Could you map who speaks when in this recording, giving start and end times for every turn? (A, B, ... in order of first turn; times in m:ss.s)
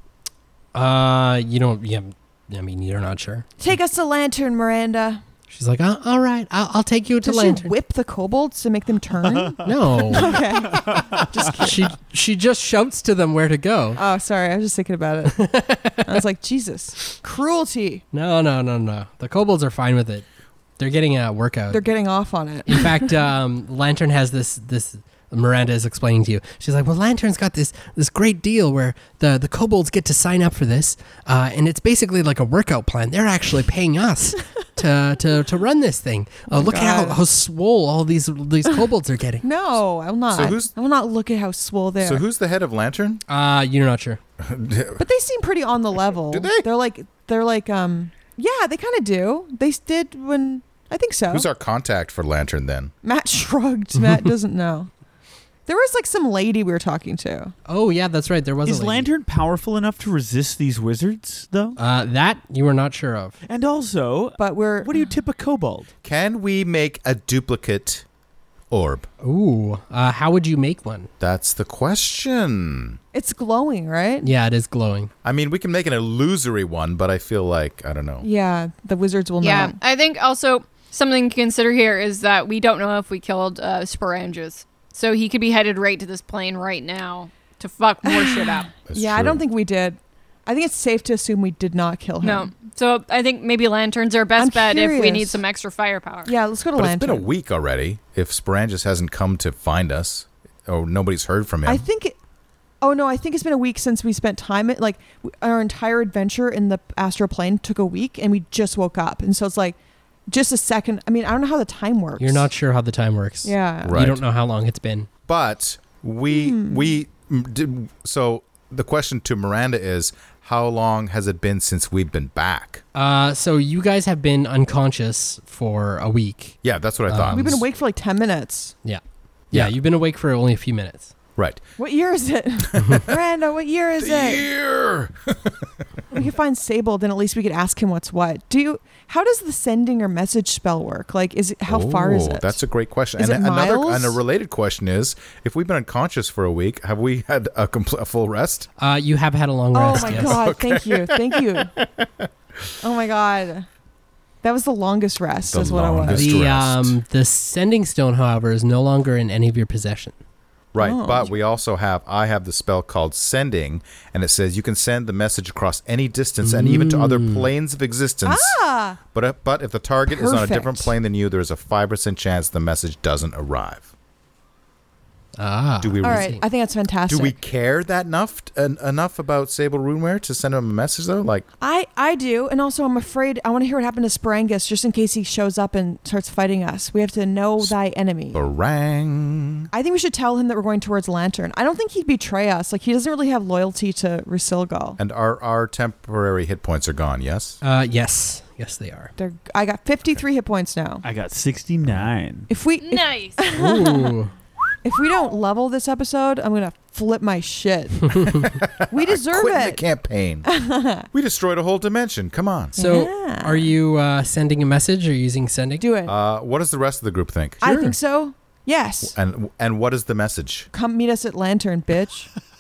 0:00.7-0:03.5 A
0:03.6-0:05.2 B
0:05.5-0:07.7 A
0:07.2-0:11.9 B
0:09.3-0:11.3 C
0:09.6-0:10.4 A
0:11.4-0:14.0 A
0:14.0-0:15.5 B
0:15.3-0:16.2 A
0:16.0-0:18.0 B
0:18.1-0:20.2 A
0:20.8-0:21.8 A
0:21.7-0:23.1 B
0:22.7-0:39.4 A
0:36.5-0:37.2 B
0:39.4-0:42.2 B
0:40.3-0:40.7 D
0:42.0-0:43.2 D
0:43.3-0:44.2 A
0:44.4-0:45.0 D
0:45.0-0:51.5 B
0:46.3-0:46.6 D
0:51.3-0:52.9 D
0:53.0-0:54.9 B
0:55.7-0:57.5 B
0:57.7-0:59.1 A
0:58.6-1:01.8 C
1:01.8-1:03.4 A
1:03.5-1:05.9 C
1:04.4-1:05.0 B
1:06.0-1:08.0 D
1:08.7-1:09.1 D
1:09.2-1:11.1 A
1:11.2-1:13.0 D
1:13.1-1:14.3 B
1:14.2-1:15.1 A
1:15.2-1:18.3 D
1:18.2-1:19.8 B
1:19.4-1:28.7 E
1:28.0-1:32.5 B
1:28.9-1:29.4 D
1:32.2-1:36.3 E
1:34.4-1:35.4 B
1:36.2-1:37.3 B
1:36.8-1:41.8 D
1:41.6-1:42.2 B
1:42.8-1:49.8 B
1:50.3-1:52.5 B
1:52.2-1:55.1 A
1:53.4-1:54.0 B
1:53.8-1:54.2 D
1:55.3-2:02.8 D
1:56.3-1:56.9 B
2:03.0-2:06.6 A
2:06.6-2:07.6 D
2:07.1-2:07.5 A
2:07.3-2:08.8 B
2:08.8-2:11.1 A
2:11.4-2:11.6 D
2:11.8-2:14.4 B
2:14.0-2:15.7 D
2:16.1-2:22.6 B
2:21.7-2:28.7 D
2:23.2-2:24.2 B
2:28.8-2:30.5 A
2:29.7-2:31.7 B
2:29.9-2:32.3 D
2:32.8-2:33.7 B
2:34.4-2:36.3 B
2:35.5-2:37.0 D
2:36.1-2:40.2 A
2:40.7-2:53.9 D
2:40.8-2:41.4 B
2:46.4-2:47.5 A
2:48.2-2:49.0 B
2:50.1-2:50.9 B
2:55.4-2:56.4 A
2:55.8-2:56.4 D
2:56.0-2:57.4 B
2:57.1-3:01.5 D
3:01.6-3:08.4 B
3:08.3-3:09.7 D
3:09.7-3:15.0 B
3:15.0-3:17.6 D
3:17.6-3:19.1 A
3:19.2-3:21.0 B
3:21.0-3:22.5 C
3:22.5-3:24.2 B
3:22.8-3:23.4 E
3:23.5-3:24.3 A
3:24.8-3:29.8 B
3:28.5-3:30.5 D
3:30.4-3:31.1 B
3:31.1-3:32.8 D
3:32.8-3:33.7 B
3:32.8-3:35.8 A
3:35.8-3:36.2 B
3:36.1-3:37.9 D
3:37.6-3:39.1 B
3:39.1-3:40.7 D
3:40.7-3:42.3 B